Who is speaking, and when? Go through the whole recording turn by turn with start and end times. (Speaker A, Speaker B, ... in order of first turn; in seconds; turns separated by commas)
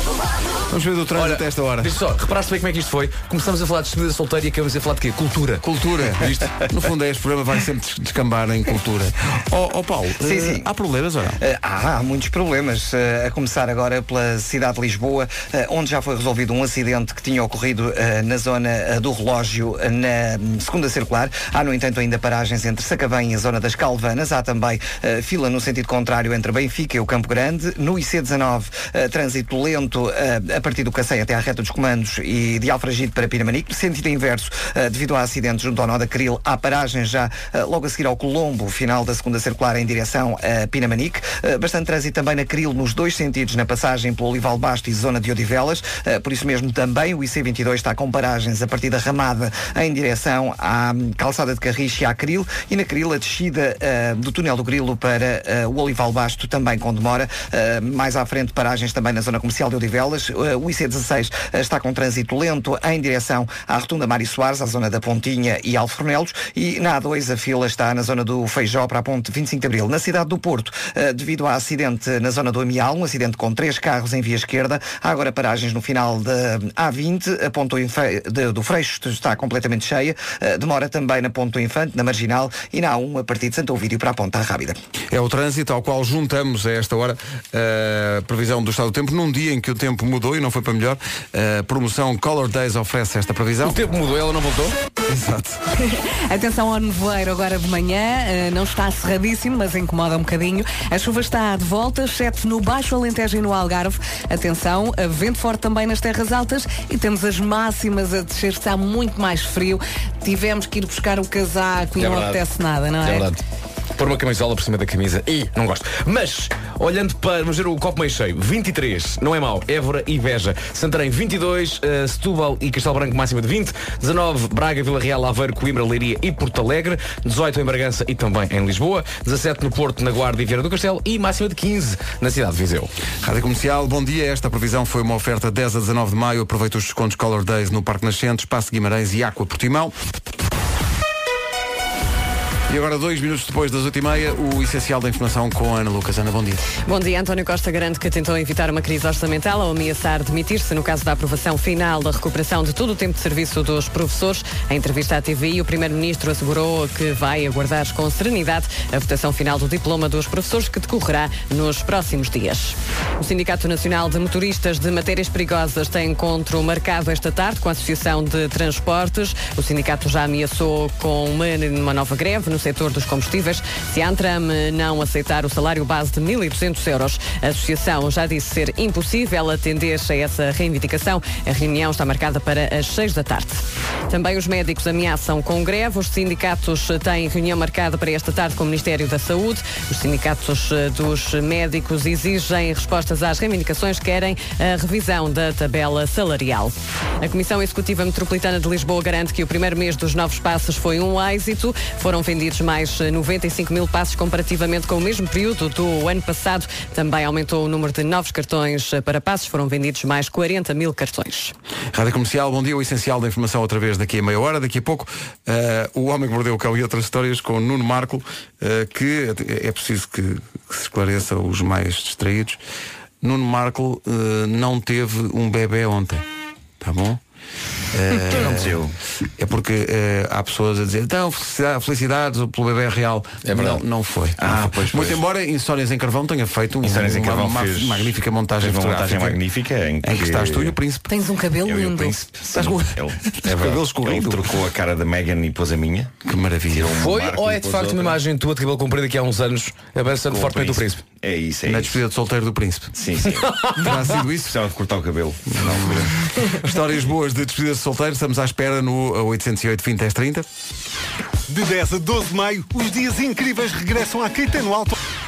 Speaker A: 0.7-1.9, Speaker B: 1.1-5.6, Speaker A: 5.6-11.4, Speaker C: 10.2-10.7, Speaker C: 11.4-84.8, Speaker A: 85.1-93.8, Speaker B: 93.6-94.8, Speaker A: 95.0-95.6, Speaker D: 95.8-113.3, Speaker B: 112.0-112.4, Speaker B: 113.0-113.4, Speaker B: 114.0-132.9, Speaker A: 133.2-139.9, Speaker A: 142.7-146.6, Speaker E: 146.8-211.5, Speaker A: 211.9-222.6, Speaker A: 223.2-226.2, Speaker A: 226.8-227.2, Speaker A: 227.9-228.8, Speaker F: 228.4-228.9, Speaker A: 229.4-239.4, Speaker B: 233.4-233.8, Speaker F: 234.4-235.2, Speaker F: 236.8-240.8, Speaker A: 240.0-241.1, Speaker D: 241.1-242.2, Speaker F: 241.6-246.1, Speaker A: 242.5-244.6, Speaker B: 243.5-243.8, Speaker A: 246.2-247.0, Speaker F: 246.7-248.2, Speaker B: 246.9-251.0, Speaker F: 250.3-252.0, Speaker A: 251.7-252.9, Speaker F: 252.9-253.5, Speaker B: 253.4-254.0, Speaker A: 253.8-254.6, Speaker F: 254.4-256.1, Speaker A: 255.5-260.5, Speaker G: 261.5-264.9